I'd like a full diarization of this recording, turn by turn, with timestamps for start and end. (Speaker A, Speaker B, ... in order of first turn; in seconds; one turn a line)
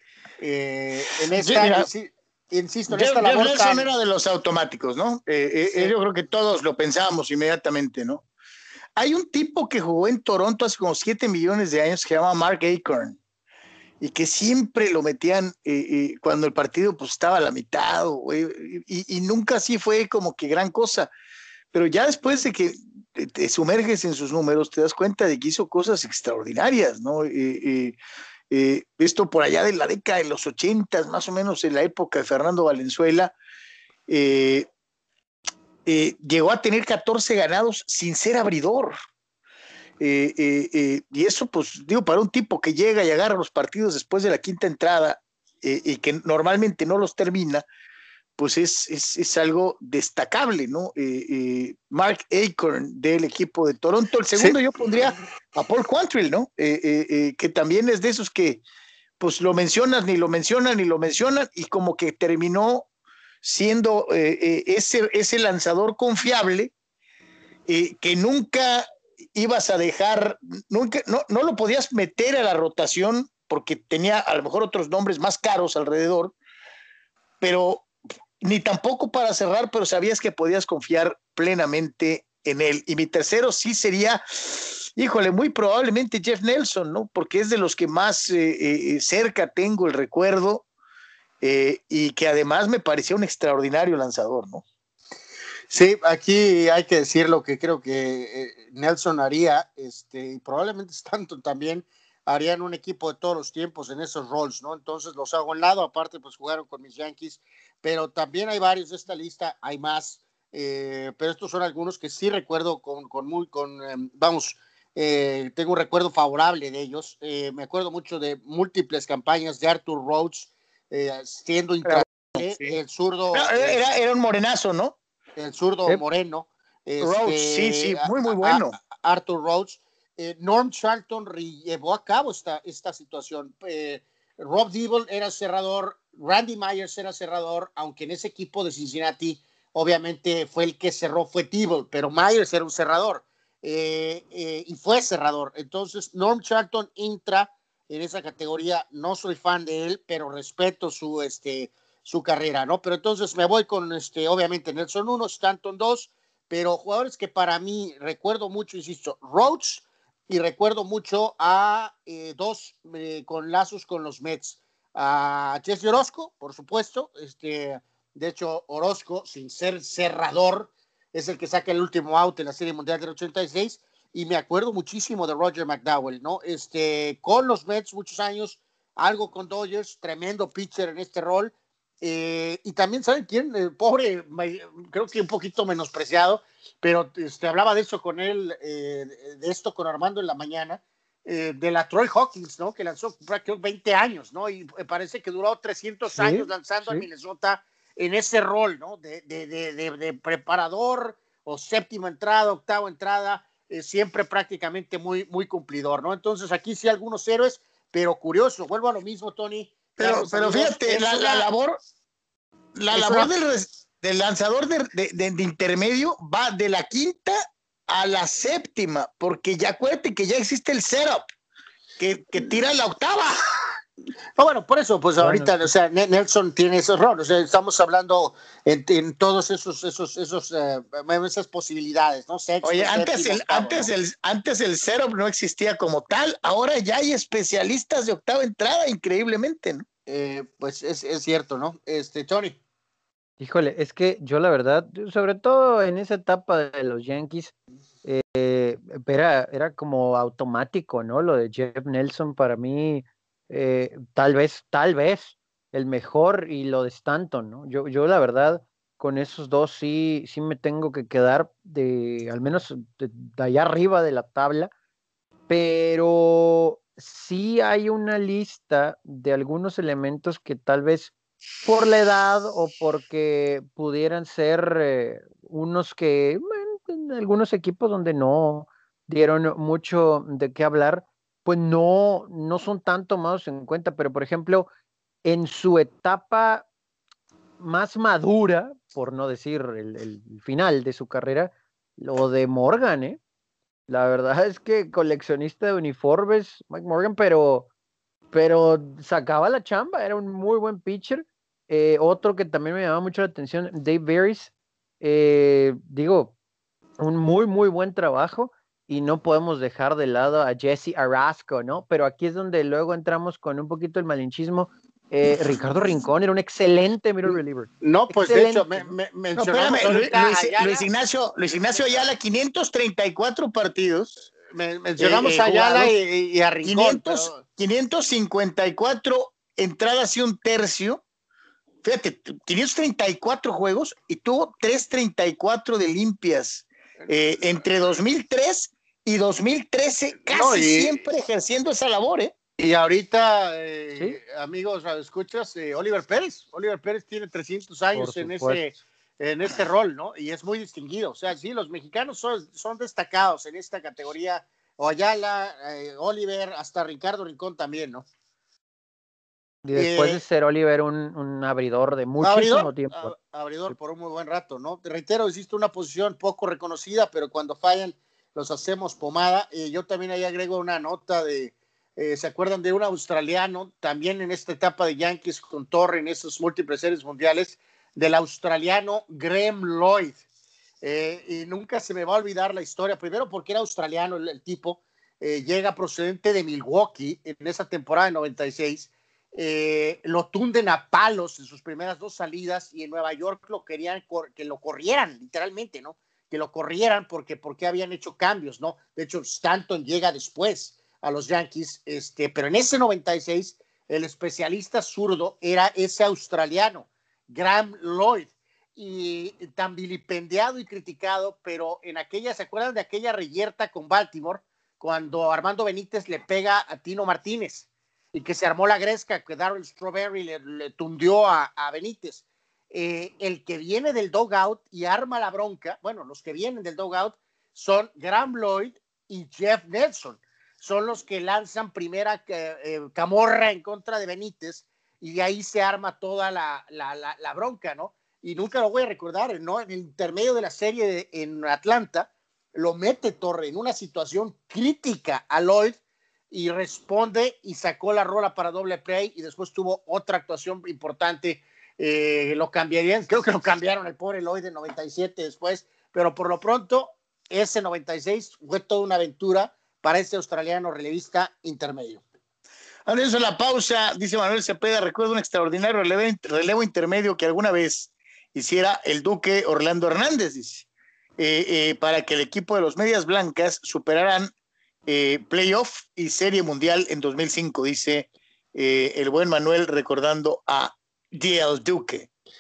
Speaker A: 0.4-3.9
Speaker B: 1.4-1.9
Speaker B: 2.9-8.2
Speaker A: 5.6-5.9
Speaker B: 9.0-13.2
Speaker B: 14.0-21.1
Speaker B: 21.7-28.0
Speaker B: 28.5-33.3
Speaker B: 34.1-34.7
Speaker B: 35.9-39.0
Speaker B: 40.0-47.6
Speaker B: 48.4-58.6
Speaker B: 59.2-62.9
Speaker B: 63.4-66.7
Speaker B: 67.7-76.4
Speaker B: 77.4-77.9
Speaker B: 78.4-90.7
Speaker B: 91.4-94.6
Speaker A: 95.7-123.8
Speaker B: 121.8-122.8
Speaker B: 123.3-125.0
Speaker A: 125.4-211.5
Speaker B: 127.0-128.8
Speaker C: 196.2-197.1
Speaker B: 210.0-211.8
Speaker B: 212.8-217.4
Speaker A: 212.9-213.3
Speaker B: 217.9-221.2
Speaker B: 222.0-223.3
Speaker A: 224.4-233.9
Speaker C: 225.2-225.7
Speaker B: 232.6-239.8
Speaker A: 240.1-242.6
Speaker C: 243.4-247.5
Speaker C: 248.1-264.7
Speaker C: 265.5-271.1
Speaker C: 271.6-284.7
Speaker C: 285.2-286.7
Speaker C: 287.6-293.2
Speaker C: 293.9-297.7
Speaker C: 298.3-306.4
Speaker C: 307.0-318.9
Speaker A: 317.3-320.9
Speaker B: 319.4-324.2
Speaker A: 321.7-322.1
Speaker A: 324.5-327.4
Speaker B: 325.0-325.9
Speaker B: 326.6-331.0
Speaker B: 331.8-342.3
Speaker A: 340.3-341.0
Speaker A: 342.6-358.1
Speaker C: 347.9-348.6
Speaker C: 359.6-363.1
Speaker A: 359.7-360.2
Speaker A: 362.2-380.1
Speaker A: 380.8-445.8
Speaker A: 446.3-462.0
Speaker B: 462.9-474.3
Speaker B: 474.9-482.1